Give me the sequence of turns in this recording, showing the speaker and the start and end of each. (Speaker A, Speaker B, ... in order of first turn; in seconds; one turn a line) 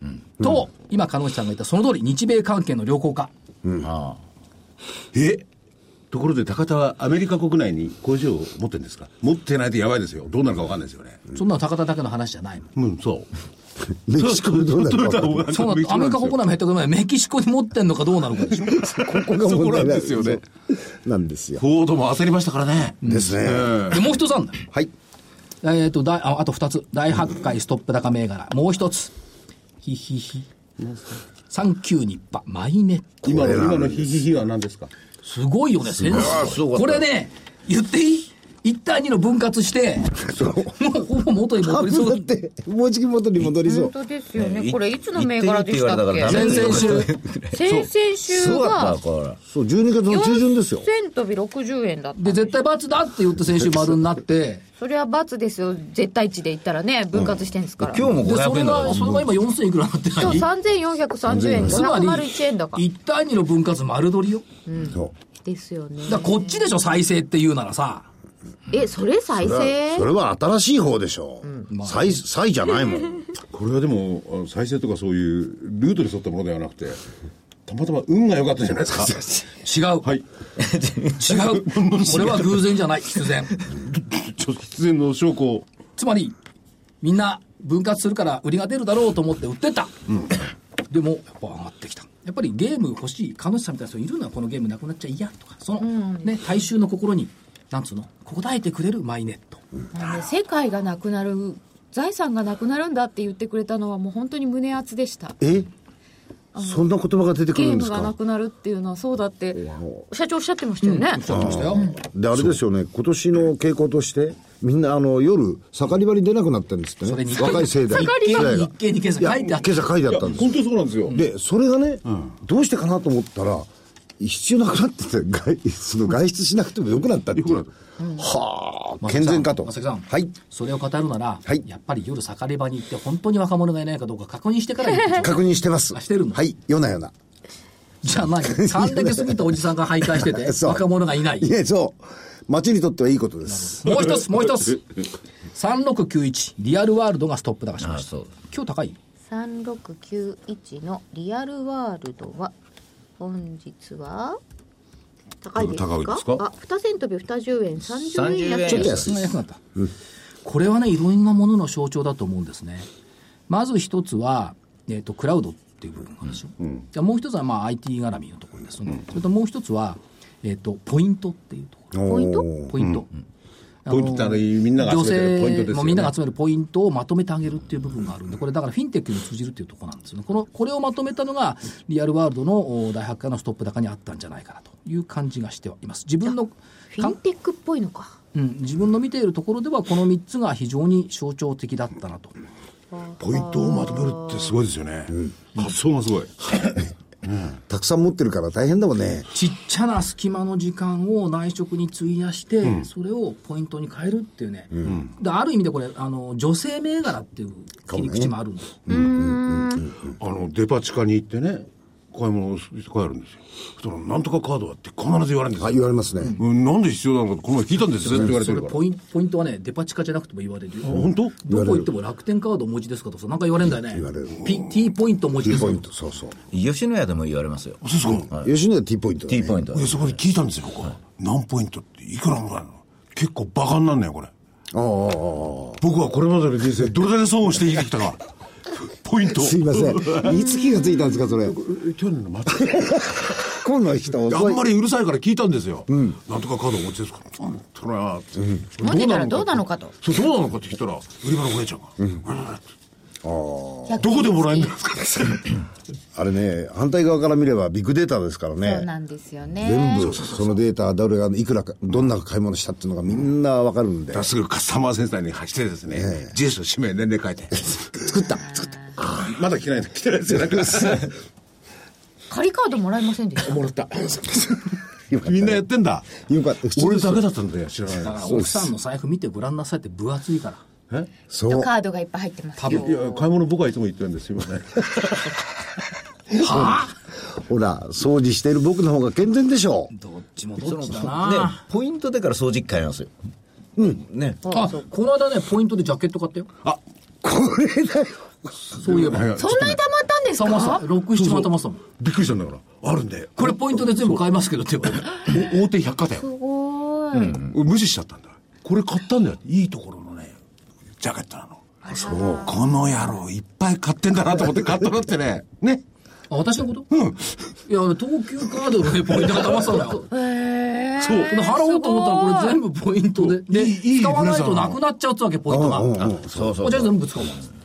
Speaker A: 0.4-3.3
Speaker B: 3.6-3.9
Speaker C: 3.8-4.2
Speaker D: 5.1-5.4
Speaker D: 6.1-11.2
Speaker A: 11.3-12.7
Speaker D: 12.8-13.3
Speaker B: 14.1-15.5
Speaker D: 14.2-16.4
Speaker A: 15.5-18.8
Speaker B: 18.7-21.6
Speaker D: 18.7-20.4
Speaker D: 21.6-24.1
Speaker A: 23.0-24.6
Speaker B: 23.0-23.8
Speaker A: 25.6-29.1
Speaker A: 29.8-30.5
Speaker D: 30.8-31.2
Speaker A: 31.5-33.3
Speaker D: 33.2-34.9
Speaker B: 33.2-34.2
Speaker A: 35.2-42.2
Speaker C: 36.1-37.0
Speaker B: 36.1-36.5
Speaker B: 40.2-40.8
Speaker B: 41.6-43.9
Speaker E: 43.5-47.0
Speaker C: 44.4-49.4
Speaker A: 46.2-47.1
Speaker E: 47.5-49.0
Speaker B: 49.5-50.9
Speaker E: 50.1-52.5
Speaker A: 52.2-54.6
Speaker E: 54.8-58.0
Speaker B: 57.1-57.5
Speaker C: 57.8-59.2
Speaker A: 58.2-60.5
Speaker E: 60.2-62.8
Speaker B: 61.3-61.9
Speaker A: 61.6-64.5
Speaker E: 64.7-66.7
Speaker B: 64.8-65.1
Speaker A: 66.0-68.1
Speaker E: 68.7-70.1
Speaker B: 69.4-73.2
Speaker A: 71.7-72.2
Speaker D: 73.5-77.0
Speaker D: 77.7-79.2
Speaker A: 79.5-80.1
Speaker C: 80.6-81.2
Speaker A: 81.2-83.6
Speaker D: 81.3-82.7
Speaker D: 83.7-85.7
Speaker A: 86.0-86.3
Speaker A: 87.0-89.9
Speaker A: 90.9-99.6
Speaker E: 95.8-96.5
Speaker E: 99.9-105.4
Speaker B: 105.4-105.7
Speaker E: 106.5-106.8
Speaker B: 106.6-108.1
Speaker E: 107.5-112.0
Speaker B: 109.5-110.0
Speaker A: 110.8-111.9
Speaker B: 111.3-120.6
Speaker A: 117.0-119.9
Speaker E: 117.4-118.5
Speaker D: 120.1-121.2
Speaker B: 121.1-130.3
Speaker D: 127.3-127.7
Speaker A: 129.0-135.4
Speaker B: 135.1-137.1
Speaker A: 135.9-136.4
Speaker A: 138.0-141.5
Speaker B: 138.4-139.4
Speaker B: 140.2-143.9
Speaker A: 143.5-144.8
Speaker A: 145.5-148.9
Speaker C: 147.8-148.3
Speaker E: 149.3-152.5
Speaker E: 153.2-154.4
Speaker E: 155.4-159.1
Speaker D: 155.6-156.4
Speaker C: 158.1-159.1
Speaker B: 158.7-159.9
Speaker A: 159.0-159.6
Speaker A: 160.4-162.9
Speaker A: 163.5-172.0
Speaker B: 171.9-172.7
Speaker E: 172.0-172.5
Speaker A: 172.7-173.1
Speaker A: 173.8-187.2
Speaker D: 173.9-176.1
Speaker E: 186.9-188.2
Speaker A: 188.3-192.3
Speaker E: 192.9-194.5
Speaker D: 193.2-197.5
Speaker B: 197.7-199.3
Speaker A: 199.3-208.9
Speaker D: 204.8-205.1
Speaker B: 207.9-208.3
Speaker B: 208.9-210.1
Speaker E: 208.9-209.9
Speaker D: 210.2-215.8
Speaker B: 215.6-216.4
Speaker D: 216.3-218.8
Speaker A: 218.0-225.8
Speaker D: 220.8-221.3
Speaker B: 221.4-221.9
Speaker B: 223.8-224.6
Speaker B: 225.4-226.3
Speaker C: 226.5-228.5
Speaker D: 227.8-228.3
Speaker B: 228.1-229.6
Speaker C: 229.3-230.2
Speaker D: 229.7-234.3
Speaker B: 234.7-235.8
Speaker D: 235.8-238.2
Speaker D: 238.8-240.4
Speaker B: 239.4-241.6
Speaker E: 240.3-240.9
Speaker D: 241.4-243.4
Speaker B: 242.7-244.6
Speaker D: 244.2-252.6
Speaker B: 245.9-246.2
Speaker B: 248.4-248.7
Speaker E: 248.8-249.9
Speaker B: 253.2-254.0
Speaker E: 253.9-254.7
Speaker D: 254.0-255.6
Speaker B: 256.1-258.9
Speaker E: 258.6-260.6
Speaker B: 259.6-264.2
Speaker D: 264.1-268.1
Speaker B: 265.9-266.3
Speaker B: 267.9-269.1
Speaker E: 268.3-268.9
Speaker D: 269.0-271.1
Speaker E: 272.3-273.6
Speaker D: 273.4-278.2
Speaker B: 275.1-275.6
Speaker B: 276.1-277.2
Speaker A: 278.0-280.6
Speaker B: 278.1-278.7
Speaker B: 281.3-281.7
Speaker E: 281.5-283.2
Speaker A: 282.6-282.9
Speaker D: 282.6-285.3
Speaker B: 286.4-289.9
Speaker A: 286.4-286.9
Speaker A: 289.9-291.6
Speaker C: 290.6-293.1
Speaker B: 293.8-294.0
Speaker C: 294.0-294.4
Speaker A: 294.4-296.5
Speaker E: 294.5-294.7
Speaker B: 297.2-298.8
Speaker A: 298.8-299.3
Speaker D: 298.9-299.8
Speaker E: 299.4-300.9
Speaker A: 300.4-301.8
Speaker D: 301.1-304.2
Speaker A: 303.4-305.3
Speaker D: 305.2-306.3
Speaker E: 306.2-307.4
Speaker D: 307.3-310.4
Speaker D: 311.0-315.8
Speaker E: 311.8-312.7
Speaker B: 311.9-312.5
Speaker A: 316.3-316.9
Speaker D: 316.9-317.5
Speaker A: 317.7-320.0
Speaker D: 319.2-319.7
Speaker E: 320.0-322.6
Speaker D: 321.0-321.4
Speaker A: 321.3-326.0
Speaker D: 323.2-324.8
Speaker B: 325.5-326.5
Speaker C: 326.0-326.9
Speaker A: 326.6-327.4